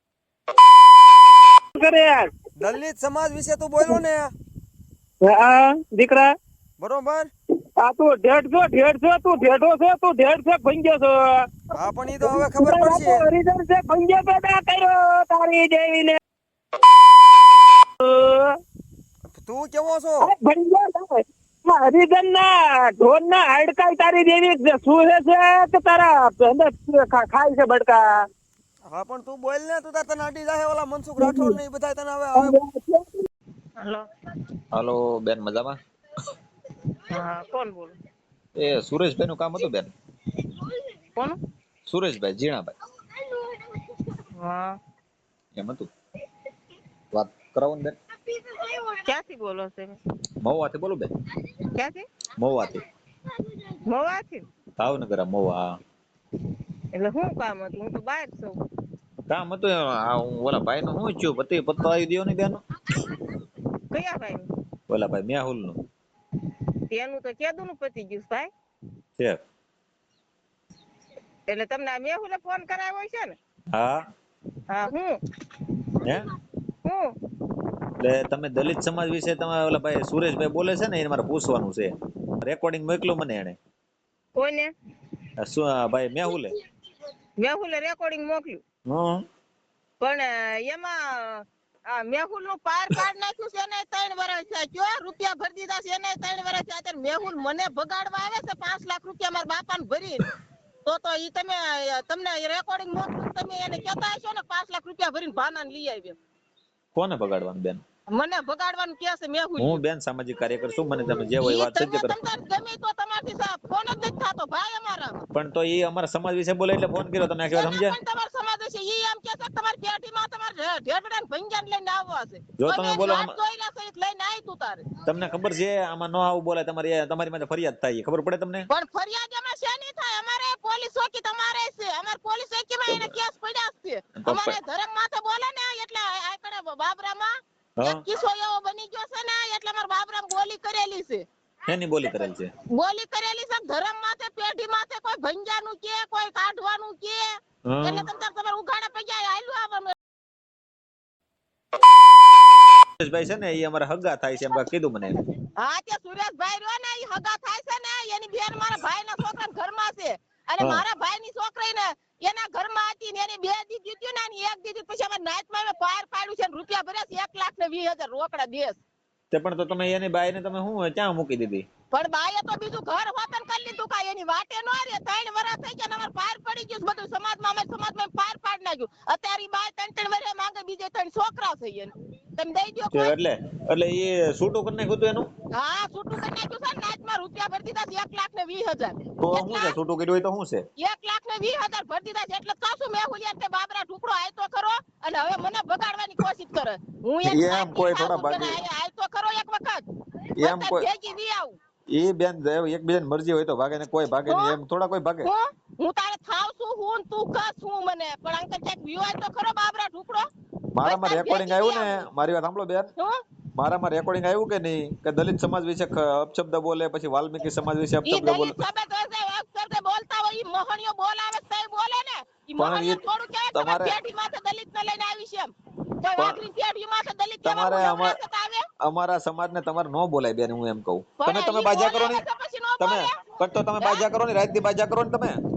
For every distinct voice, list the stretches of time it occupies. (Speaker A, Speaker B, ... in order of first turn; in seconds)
Speaker A: 1.7-2.4, 5.2-6.3, 7.7-16.2, 18.0-18.6, 20.2-28.3, 31.2-31.5, 32.4-33.2
Speaker B: 2.6-4.3, 6.8-7.3, 11.7-13.2, 19.3-20.3, 28.9-32.6
Speaker C: 33.8-34.1, 37.1-38.0, 40.6-41.4, 43.3-44.8, 48.4-50.0, 51.5-52.1, 53.4-54.5, 56.9-58.6, 63.9-64.5, 66.9-68.5, 71.5-73.3, 74.7-75.7, 76.8-77.1, 84.3-84.7, 87.4-88.6, 90.0-100.3, 100.8-106.2, 108.1-109.8, 111.2-115.2, 117.5-125.0, 128.7-141.2, 142.7-149.9, 155.6-168.8, 171.9-183.1, 185.5-189.8, 190.8-199.8, 200.4-201.6, 204.3-204.6, 205.2-210.3, 210.8-212.1, 213.0-213.2, 218.0-228.7, 231.2-234.1
Speaker D: 34.7-35.8, 38.5-39.9, 41.9-42.7, 45.5-45.9, 47.1-47.9, 50.4-51.1, 52.4-52.8, 54.8-55.8, 59.3-62.6, 64.9-65.8, 73.7-74.0, 76.0-76.3, 78.0-83.6, 85.4-86.5, 88.8-89.2, 106.9-107.8, 109.6-112.2, 115.3-118.0, 122.6-123.3, 125.0-128.7, 134.2-134.6, 141.7-142.5, 147.7-148.1, 152.8-155.2, 169.3-171.7, 182.9-185.3, 189.2-190.7, 197.2-198.6, 200.3-200.9, 201.9-205.3, 210.7-212.9, 213.5-218.5, 222.6-224.0, 227.4-228.2, 228.8-232.2, 232.8-235.4